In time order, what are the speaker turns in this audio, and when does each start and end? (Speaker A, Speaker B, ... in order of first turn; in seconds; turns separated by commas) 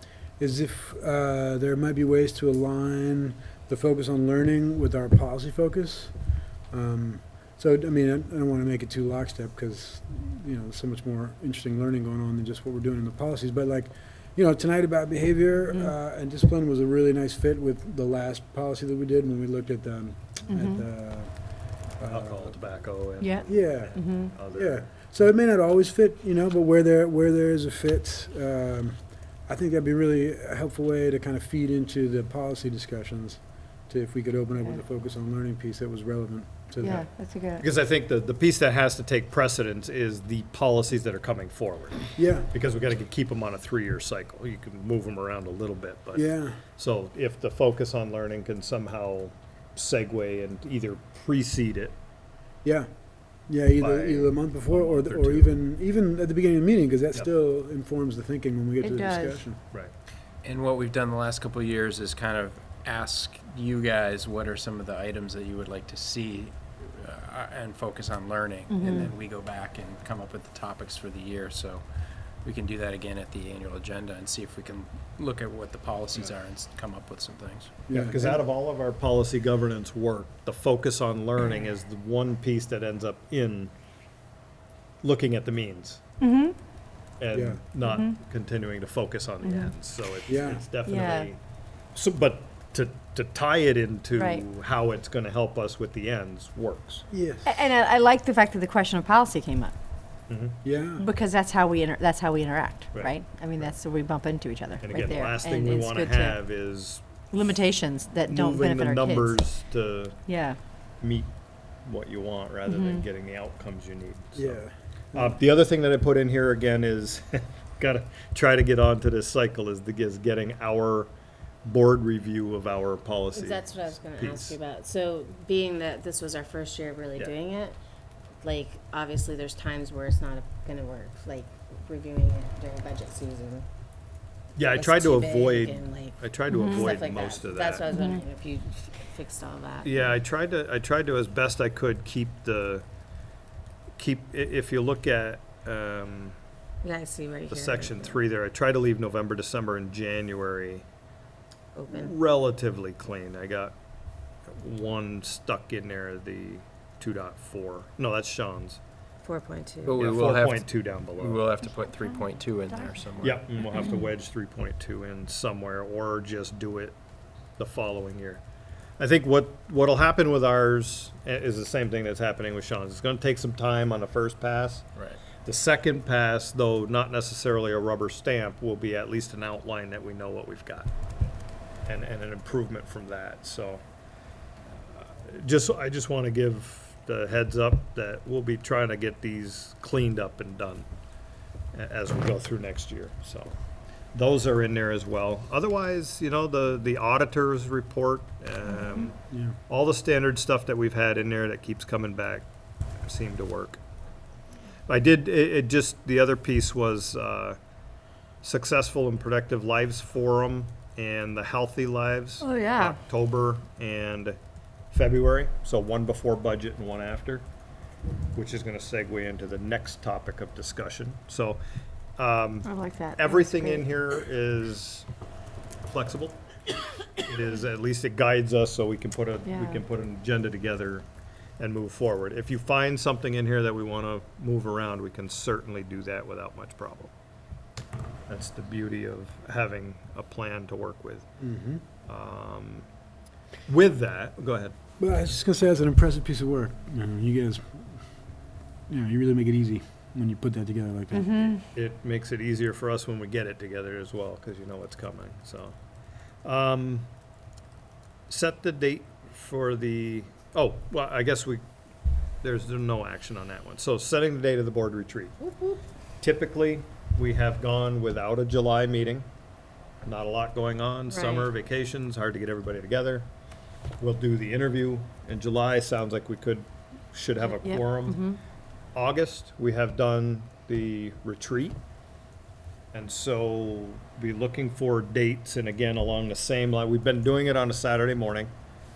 Speaker A: 0.4-6.1, Speaker A: 6.7-21.3, Speaker B: 20.5-20.8, Speaker A: 22.0-22.6, Speaker C: 22.0-24.9, Speaker B: 23.2-24.3, Speaker A: 23.4-37.1, Speaker B: 36.8-37.6, Speaker C: 37.6-51.9, Speaker A: 42.1-42.5, Speaker A: 46.1-46.6, Speaker A: 53.5-59.6, Speaker C: 53.8-55.5, Speaker B: 58.8-59.4, Speaker D: 60.4-71.8, Speaker B: 68.7-69.1, Speaker A: 68.8-69.1, Speaker D: 72.4-77.9, Speaker A: 77.9-78.4, Speaker C: 77.9-83.7, Speaker C: 85.0-86.0, Speaker B: 86.2-86.5, Speaker C: 87.2-91.4, Speaker A: 87.3-87.6, Speaker B: 87.8-88.2, Speaker B: 89.4-89.7, Speaker A: 90.3-90.6, Speaker B: 90.8-91.3, Speaker C: 91.9-97.0, Speaker B: 94.2-94.4, Speaker A: 97.1-97.6, Speaker B: 97.4-99.7, Speaker C: 100.3-100.6, Speaker A: 100.6-101.0, Speaker B: 101.0-106.4, Speaker C: 102.9-103.7, Speaker C: 104.8-107.0, Speaker B: 107.3-109.5, Speaker C: 108.3-110.2, Speaker B: 110.2-110.6, Speaker C: 111.0-111.3, Speaker C: 111.8-114.6, Speaker B: 112.7-113.0, Speaker A: 114.3-115.3, Speaker C: 115.1-121.1, Speaker C: 121.6-124.5, Speaker E: 123.3-127.8, Speaker E: 128.4-133.7, Speaker C: 134.6-137.9, Speaker E: 134.6-140.1, Speaker B: 136.5-136.9, Speaker B: 137.9-138.2, Speaker C: 139.8-142.8, Speaker C: 144.0-146.4, Speaker E: 146.8-148.1, Speaker C: 147.5-150.8, Speaker E: 151.7-152.1, Speaker C: 151.9-153.7, Speaker C: 154.5-158.8, Speaker E: 159.2-160.0, Speaker D: 159.8-163.6, Speaker C: 160.0-161.5, Speaker C: 163.2-166.9, Speaker C: 167.6-168.4, Speaker C: 169.0-174.8, Speaker D: 175.0-175.2, Speaker C: 175.4-180.9, Speaker C: 181.8-183.8, Speaker C: 184.7-190.9, Speaker C: 191.7-193.6, Speaker C: 194.1-199.2, Speaker A: 199.3-199.6, Speaker C: 199.7-202.4, Speaker C: 203.0-203.8, Speaker C: 204.9-207.6, Speaker C: 208.4-214.4, Speaker B: 212.4-213.0, Speaker C: 214.9-217.5, Speaker C: 218.3-221.6, Speaker C: 222.2-225.1, Speaker B: 222.6-223.8, Speaker C: 225.9-226.4, Speaker C: 227.2-231.1, Speaker B: 229.4-229.8, Speaker C: 231.6-237.1, Speaker C: 238.3-241.3, Speaker A: 241.4-241.8, Speaker C: 242.1-242.8, Speaker C: 243.7-244.8, Speaker A: 245.0-247.9, Speaker A: 248.9-251.4, Speaker B: 251.1-251.6, Speaker C: 251.6-255.7, Speaker C: 256.4-257.1, Speaker C: 258.3-261.6, Speaker C: 262.4-265.4, Speaker E: 265.5-265.8, Speaker C: 266.2-269.3, Speaker C: 270.0-273.3, Speaker B: 271.1-271.5, Speaker C: 274.0-278.2, Speaker B: 277.4-278.4, Speaker C: 278.9-281.8, Speaker C: 282.9-288.5